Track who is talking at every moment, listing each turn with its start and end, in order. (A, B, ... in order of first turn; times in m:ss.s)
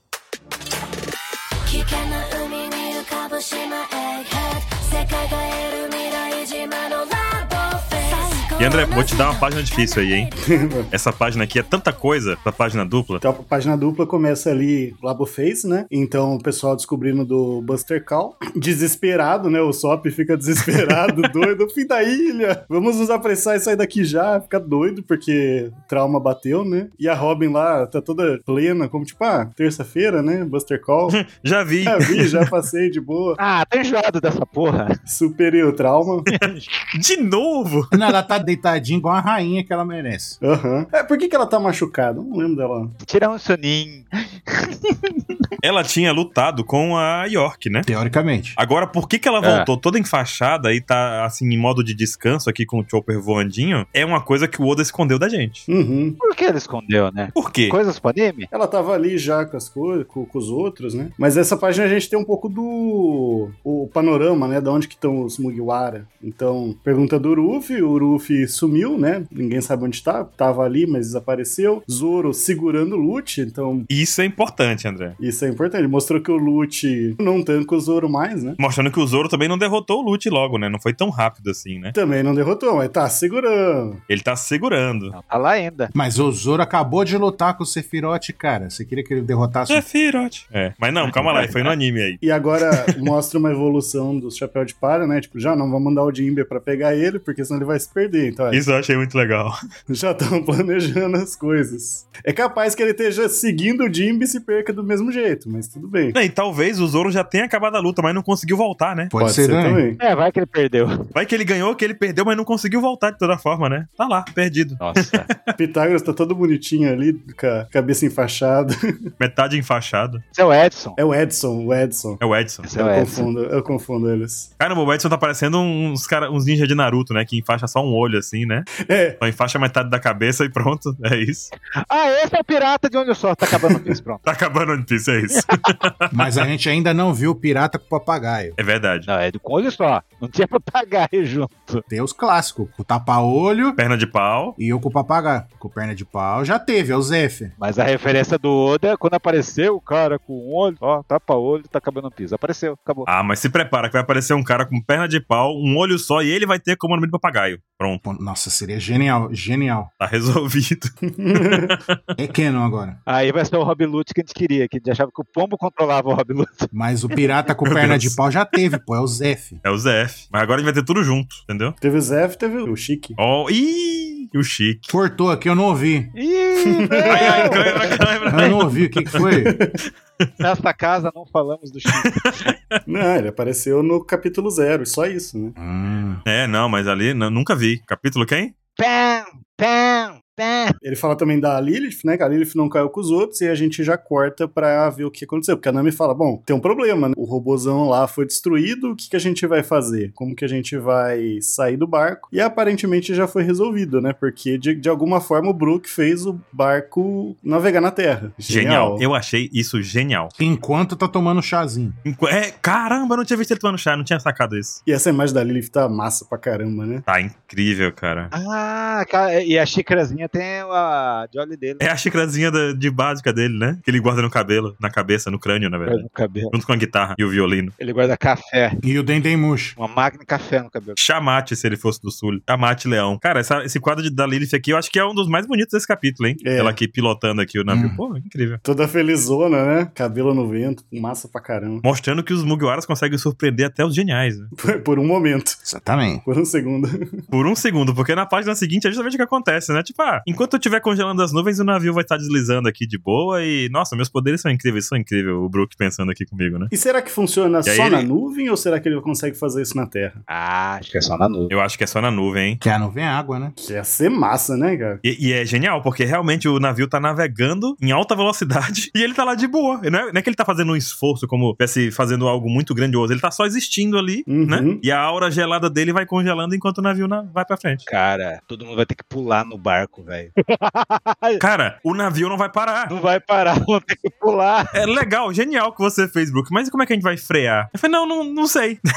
0:01.6-0:10.3 A
0:08.6-0:10.3 B
0:10.5-0:10.9 C
0:10.9-0:13.2 B
0:13.2-0:31.2 C
0:31.1-0:32.5 B
0:31.9-0:33.4 C
0:33.4-0:35.0 D
0:35.1-0:36.3 C
0:36.3-0:36.8 D
0:36.3-0:37.9 B
0:37.9-0:40.4 E
0:40.4-0:43.0 C
0:43.0-0:45.4 D
0:45.6-0:47.9 B
0:47.9-0:48.6 E
0:48.6-0:55.7 B
0:49.4-0:49.7 D
0:55.7-0:56.2 C
0:56.2-0:58.5 D
0:57.4-0:57.8 B
0:58.5-1:13.9 C
1:13.9-1:15.2 B
1:15.2-1:18.6 C
1:18.6-1:22.0 B
1:21.9-1:24.0 C
1:24.1-1:25.1 B
1:25.1-1:25.9 D
1:25.9-1:29.9 E
1:29.7-1:32.9 B
1:32.2-1:38.6 C
1:38.5-1:39.6 B
1:39.9-1:46.2 C
1:46.1-1:49.1 B
1:49.1-1:49.8 E
1:49.2-1:50.0 C
1:50.0-1:51.1 D
1:51.1-1:55.5 B
1:54.8-1:55.3 D
1:55.6-1:59.0 C
1:59.2-2:00.2 B
2:00.4-2:01.0 D
2:01.0-2:02.2 C
2:02.2-2:02.7 B
2:02.6-2:03.3 D
2:02.7-2:04.5 C
2:04.6-2:08.7 B
2:08.9-2:09.2 C
2:09.2-2:11.5 B
2:11.8-2:14.2 D
2:14.2-2:16.1 B
2:16.1-2:18.6 E
2:18.6-2:19.1 B
2:19.1-2:21.8 D
2:21.9-2:23.8 E
2:23.8-2:24.6 B
2:24.6-2:27.5 E
2:27.6-2:33.1 D
2:33.1-2:38.0 B
2:38.0-2:39.9 E
2:40.0-2:42.0 B
2:41.1-2:41.8 C
2:42.2-2:43.0 E
2:43.1-2:47.2 D
2:46.7-2:49.6 E
2:47.6-2:48.2 B
2:49.6-2:51.8 B
2:51.8-2:53.2 C
2:53.2-2:55.0 B
2:54.9-2:56.1 E
2:56.2-2:58.6 D
2:56.6-2:57.9 C
2:57.1-2:59.2 B
2:58.3-2:59.6 E
2:59.2-2:59.8 C
3:00.4-3:02.3 D
3:01.9-3:02.8 B
3:02.9-3:05.6 C
3:05.6-3:06.2 E
3:06.2-3:08.5 B
3:08.8-3:10.8 D
3:10.8-3:29.0 C
3:28.5-3:30.3 B
3:30.4-3:32.0 E
3:32.0-3:34.8 B
3:34.9-3:37.0 C
3:37.1-3:38.3 B
3:38.3-3:41.8 D
3:41.8-3:47.7 B
3:45.9-3:46.5 D
3:47.8-3:48.8 D
3:48.8-3:49.8 E
3:49.8-3:51.0 D
3:51.0-3:58.6 B
3:56.4-3:56.8 C
3:57.7-3:58.0 E
3:58.6-4:01.8 C
4:01.8-4:04.5 B
4:04.6-4:05.6 C
4:05.6-4:06.2 E
4:06.2-4:07.2 C
4:07.3-4:16.7 B
4:16.7-4:20.2 C
4:17.6-4:18.1 B
4:20.3-4:21.5 D
4:21.5-4:22.6 B
4:22.6-4:23.5 E
4:23.6-4:25.0 C
4:25.0-4:37.9 B
4:34.3-4:34.8 C
4:37.9-4:41.4 D
4:41.4-4:42.9 B
4:42.9-4:44.8 D
4:44.7-4:48.8 B